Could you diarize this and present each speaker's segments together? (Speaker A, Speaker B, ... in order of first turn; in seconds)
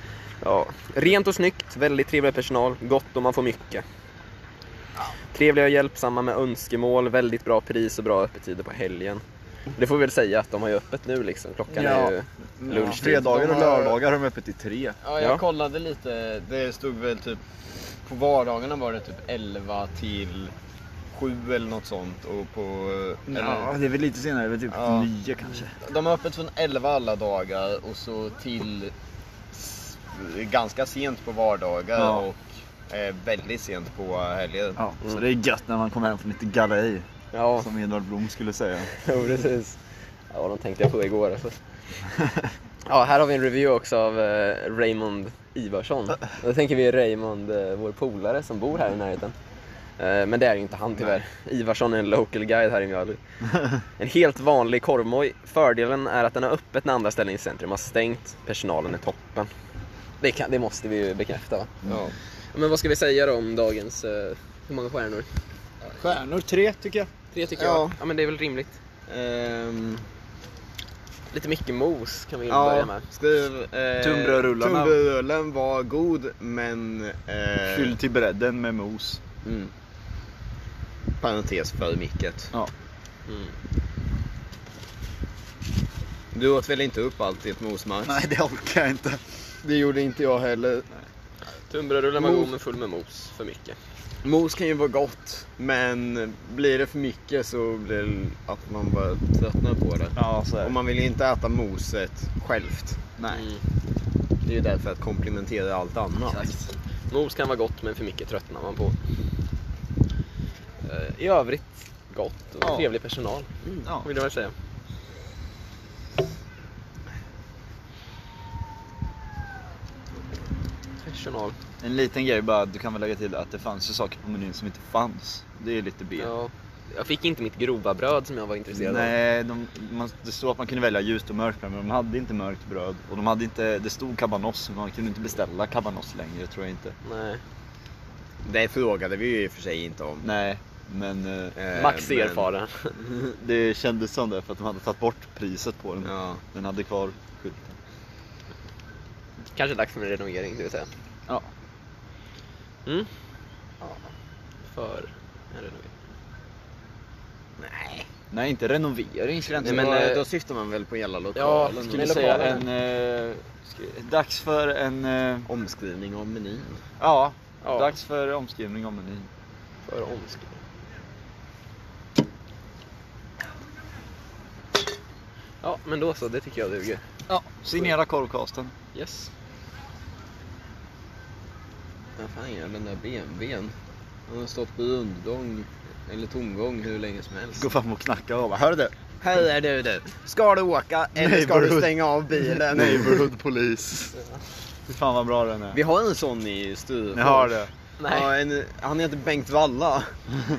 Speaker A: 0.4-3.8, 5.3-9.2, 9.7-13.5, 15.2-15.4, 37.3-37.7, 38.9-39.8, 40.3-41.6, 42.9-49.4, 50.0-53.2, 54.0-59.5, 60.2-61.7, 62.5-65.3, 67.3-68.8, 71.3-73.0, 83.3-83.5, 91.7-93.8, 103.3-103.6, 106.3-109.0, 110.8-113.5, 114.0-114.5, 121.0-121.5, 126.2-129.1, 137.0-137.4, 141.7-142.9, 149.5-150.9, 154.7-155.9, 159.6-160.2, 161.3-162.6, 167.6-167.9, 169.8-170.6, 175.6-177.0, 178.9-179.3, 198.0-198.3
Speaker B: 11.7-15.0, 23.3-25.7, 31.9-32.2, 34.8-37.0, 37.6-38.9, 42.2-42.5, 66.0-67.1, 74.0-75.0, 77.7-79.2, 88.0-89.2, 100.2-100.8, 103.2-103.4, 112.6-112.9, 121.8-126.3, 128.7-136.9, 140.2-141.5, 143.3-147.8, 158.3-159.9, 161.8-165.5, 167.0-169.3, 177.3-178.7, 187.6-188.9, 191.2-194.2, 194.9-195.8, 197.1-197.7
Speaker C: 12.7-13.9, 15.0-17.4, 18.1-20.5, 21.1-23.7, 24.7-25.1, 25.8-28.9, 29.5-34.8, 61.8-62.1, 67.6-67.9, 69.1-70.0, 72.5-77.9, 79.4-79.7, 81.2-82.5, 86.3-88.2, 89.6-90.9, 92.2-92.5, 94.2-103.0, 104.4-106.4, 138.4-140.3, 141.6-142.5, 146.0-146.4, 157.6-158.1, 159.6-162.6, 165.5-166.8, 182.2-183.7, 184.3-187.7, 189.2-193.3, 195.7-200.2